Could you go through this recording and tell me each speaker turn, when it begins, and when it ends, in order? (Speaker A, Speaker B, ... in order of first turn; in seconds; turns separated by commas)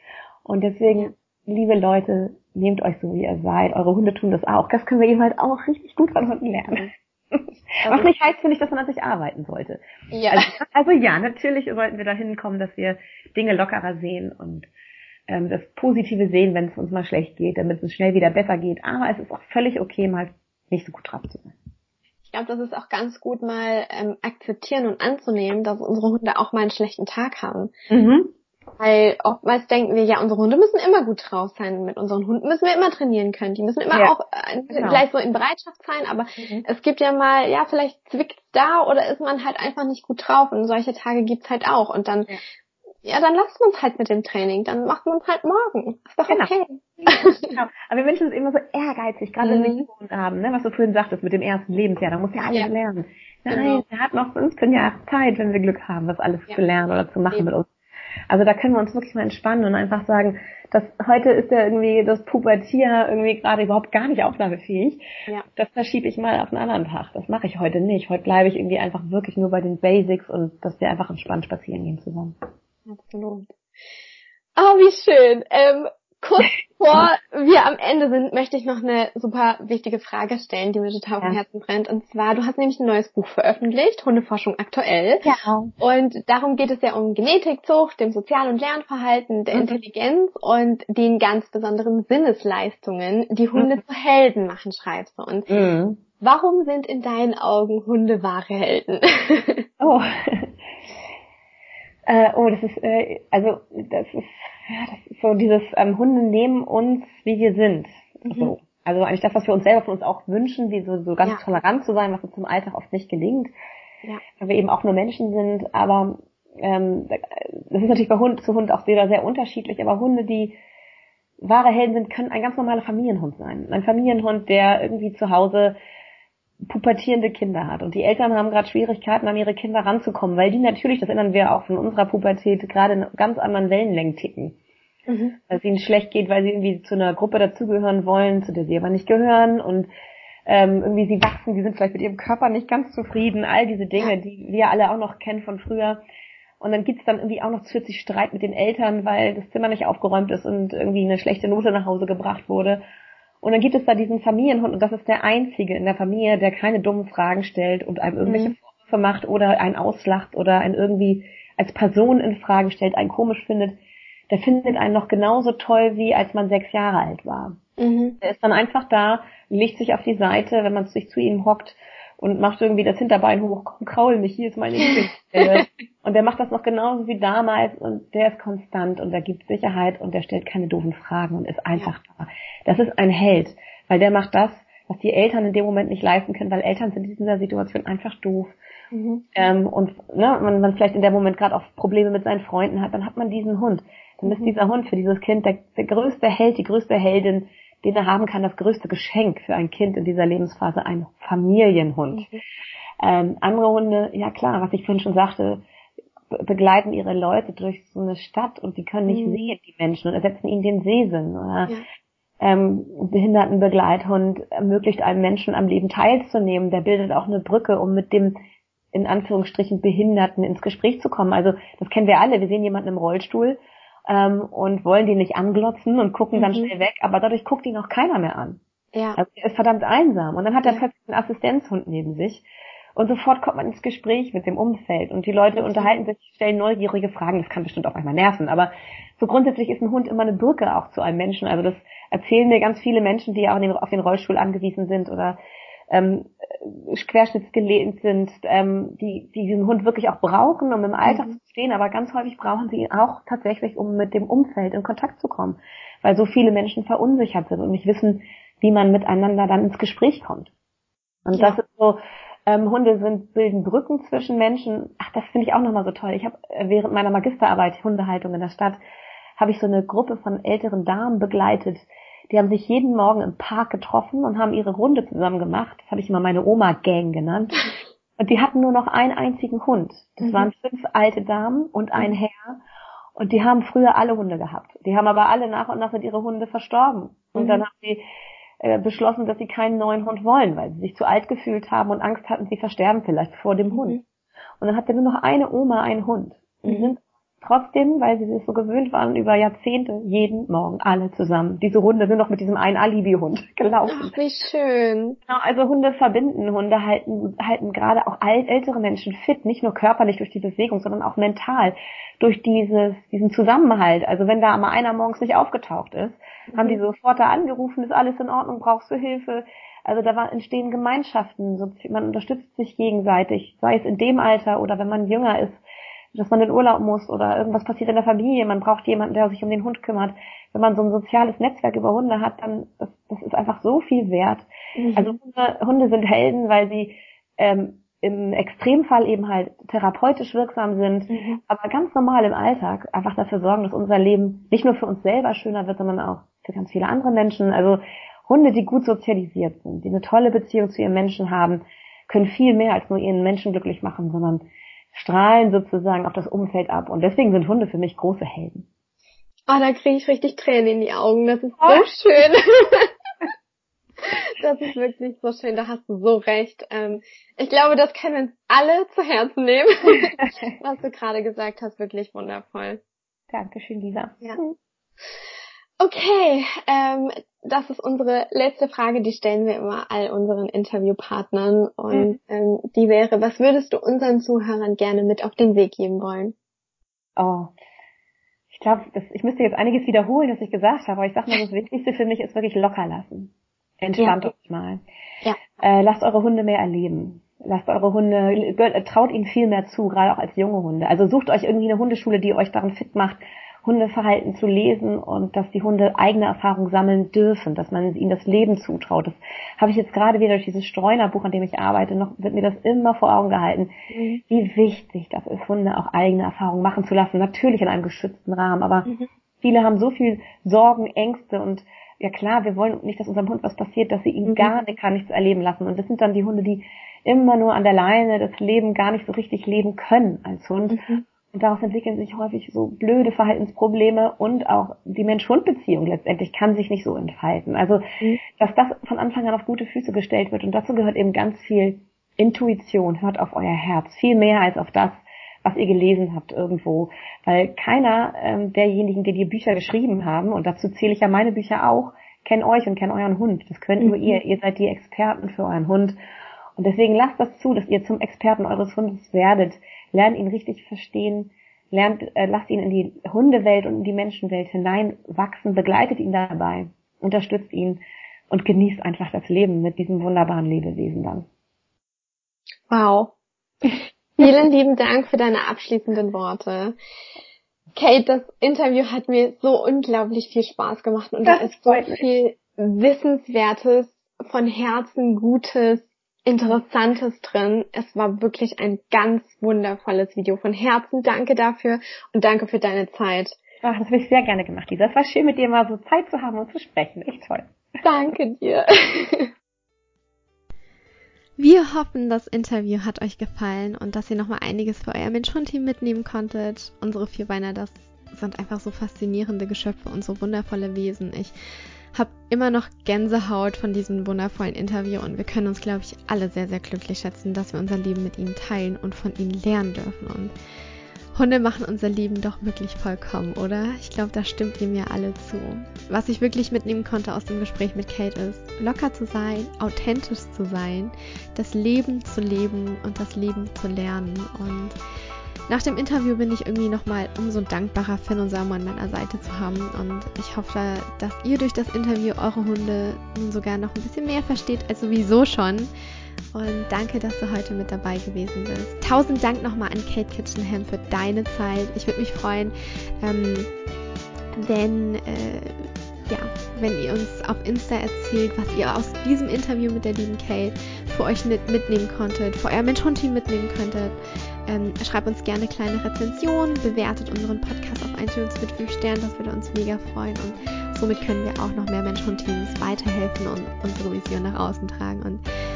Speaker A: 0.4-14.7, Speaker B: 7.8-8.1, Speaker B: 10.1-10.5, Speaker A: 15.3-21.5, Speaker B: 22.3-27.7, Speaker A: 27.9-28.3, Speaker B: 28.8-42.4, Speaker A: 34.7-35.0, Speaker A: 36.4-36.6, Speaker B: 43.0-47.5, Speaker A: 46.3-57.7, Speaker B: 49.4-49.9, Speaker B: 53.5-53.8, Speaker A: 58.3-72.3, Speaker B: 72.9-73.5, Speaker B: 74.5-85.3, Speaker A: 85.2-85.7, Speaker B: 85.8-95.5, Speaker A: 93.5-93.8, Speaker A: 95.5-96.0, Speaker B: 96.2-99.7, Speaker A: 99.8-100.5, Speaker A: 102.0-113.5, Speaker B: 108.2-108.5, Speaker A: 114.4-120.6, Speaker A: 121.4-125.8, Speaker A: 126.6-134.6, Speaker B: 135.1-135.4, Speaker A: 135.5-139.9, Speaker A: 140.5-146.0, Speaker A: 146.6-152.8, Speaker A: 153.4-163.7, Speaker B: 158.2-158.5, Speaker A: 164.3-167.6, Speaker B: 167.8-168.2, Speaker A: 168.2-188.5, Speaker B: 174.8-175.6, Speaker B: 188.9-189.3, Speaker A: 189.3-202.3, Speaker B: 194.2-194.5, Speaker B: 202.1-202.4, Speaker A: 203.0-205.6, Speaker A: 206.3-211.7, Speaker B: 209.1-209.5, Speaker A: 212.4-218.3, Speaker A: 218.9-228.6, Speaker B: 226.3-226.7, Speaker A: 229.2-245.4, Speaker B: 235.6-235.9, Speaker A: 245.9-260.5, Speaker B: 251.0-251.3, Speaker A: 261.2-268.8, Speaker A: 269.4-277.7, Speaker A: 278.2-282.6, Speaker B: 280.2-280.5, Speaker A: 283.1-288.0, Speaker B: 287.3-287.6, Speaker A: 288.6-294.0, Speaker B: 293.7-294.0, Speaker A: 294.6-304.1, Speaker B: 296.6-296.9, Speaker B: 303.9-305.2, Speaker A: 305.3-325.6, Speaker B: 316.5-316.8, Speaker A: 326.1-358.6, Speaker B: 334.8-335.1, Speaker B: 341.1-341.4, Speaker B: 359.5-362.9, Speaker B: 364.0-372.8, Speaker A: 373.3-374.6, Speaker B: 375.8-386.3, Speaker A: 387.2-387.5, Speaker A: 388.5-394.8, Speaker B: 394.0-394.3, Speaker A: 395.6-413.7, Speaker B: 413.9-414.2, Speaker A: 414.2-455.9, Speaker B: 424.2-424.5, Speaker B: 430.7-431.0, Speaker B: 453.8-454.2, Speaker A: 456.6-471.3, Speaker B: 472.7-473.1, Speaker B: 474.2-476.8, Speaker B: 477.7-493.4, Speaker A: 481.2-482.0, Speaker A: 493.6-497.5, Speaker B: 497.8-499.3, Speaker C: 501.4-511.3, Speaker C: 511.9-520.3, Speaker C: 521.1-534.8, Speaker C: 535.5-545.7, Speaker C: 546.3-553.5, Speaker C: 554.4-575.2